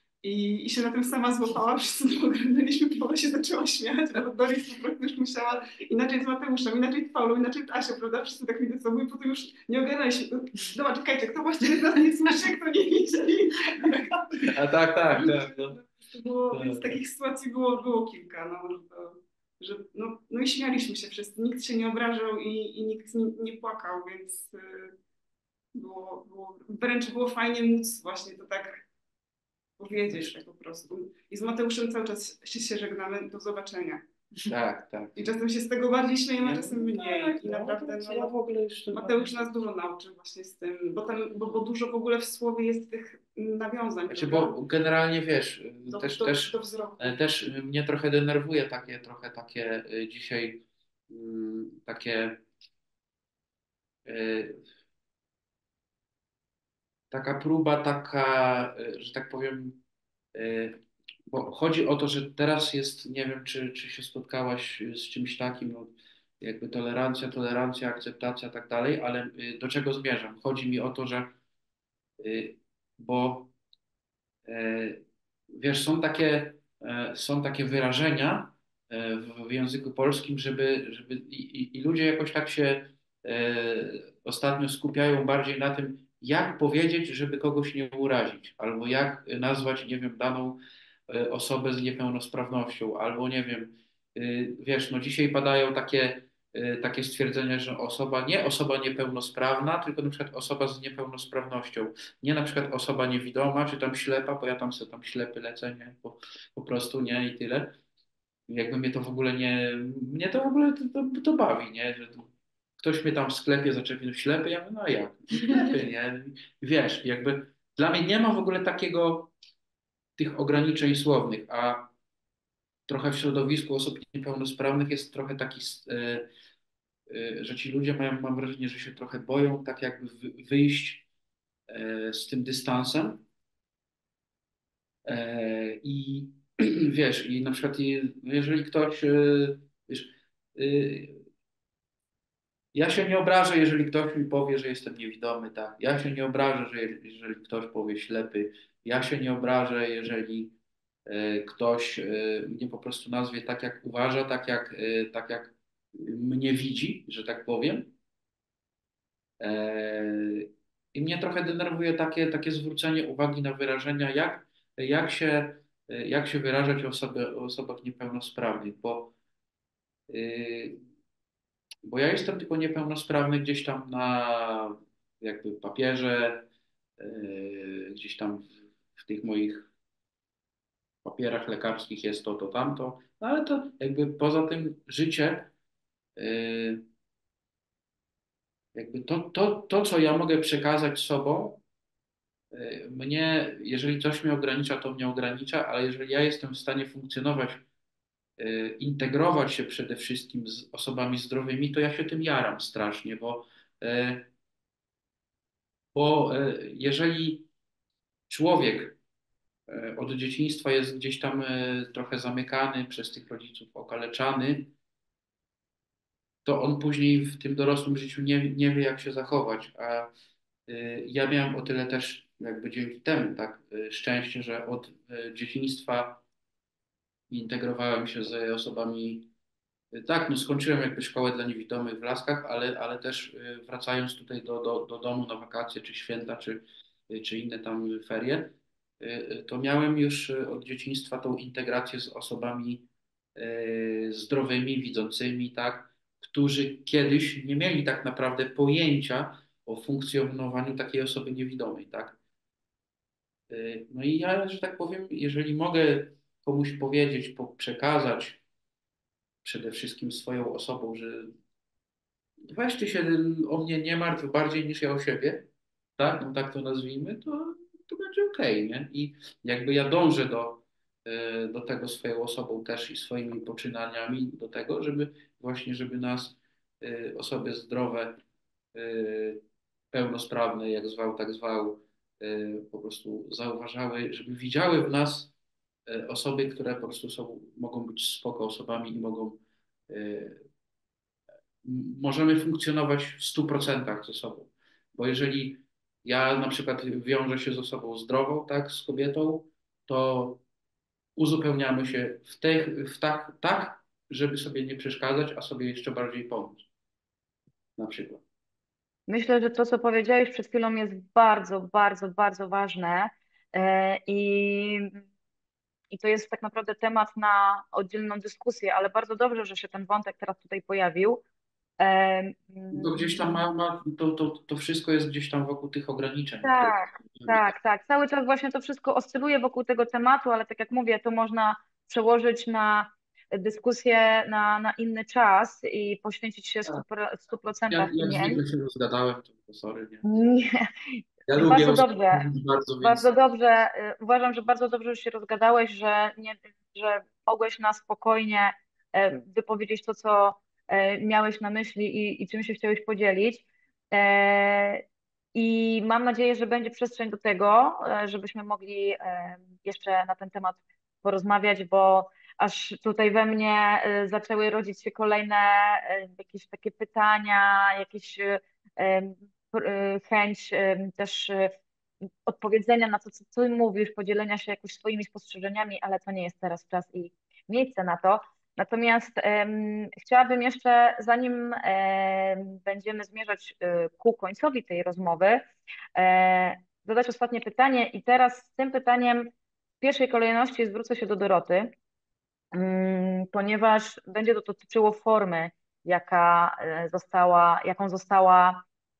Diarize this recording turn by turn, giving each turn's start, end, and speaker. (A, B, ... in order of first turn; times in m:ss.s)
0:00.2-0:14.6 A
0:14.4-0:15.8 B
0:15.1-0:24.9 A
0:16.5-0:17.0 B
0:25.7-0:28.9 A
0:29.8-0:34.0 A
0:34.4-0:35.2 B
0:35.2-0:38.4 A
0:36.4-0:39.5 B
0:38.9-0:44.6 A
0:44.1-0:52.4 B
0:45.9-0:47.2 A
0:54.0-0:54.6 B
0:57.1-0:59.8 B
1:00.3-1:11.4 B
1:12.2-1:13.5 B
1:14.4-1:47.8 B
1:48.5-1:59.3 B
2:00.2-2:01.9 B
2:02.9-2:06.3 B
2:07.1-2:11.0 B
2:11.7-2:13.2 B
2:15.0-2:21.2 B
2:22.7-2:37.9 B
2:39.4-2:49.1 B
2:50.1-2:50.8 B
2:51.8-2:59.7 B
3:01.0-3:05.5 B
3:06.2-3:06.8 B
3:08.7-3:11.6 B
3:12.5-3:17.6 B
3:18.4-3:24.3 B
3:25.9-3:27.5 B
3:28.3-3:29.0 B
3:29.7-3:34.7 B
3:36.4-3:40.1 B
3:40.7-3:46.2 B
3:47.3-3:49.3 B
3:49.9-4:12.2 B
4:13.5-4:18.4 B
4:19.4-4:21.4 B
4:22.5-4:38.2 B
4:38.7-4:45.3 B
4:45.9-4:50.4 B
4:51.6-5:00.4 B
5:01.2-5:06.6 B
5:07.8-5:08.2 B
5:09.1-5:15.0 C
5:15.9-5:21.2 C
5:21.8-5:23.4 C
5:22.7-5:27.5 B
5:26.4-5:38.4 C
5:37.7-5:40.0 B
5:40.0-5:42.2 C
5:41.3-5:43.1 B
5:42.8-5:54.8 C
5:55.4-6:11.5 C
6:12.3-6:31.7 C
6:32.5-6:38.6 C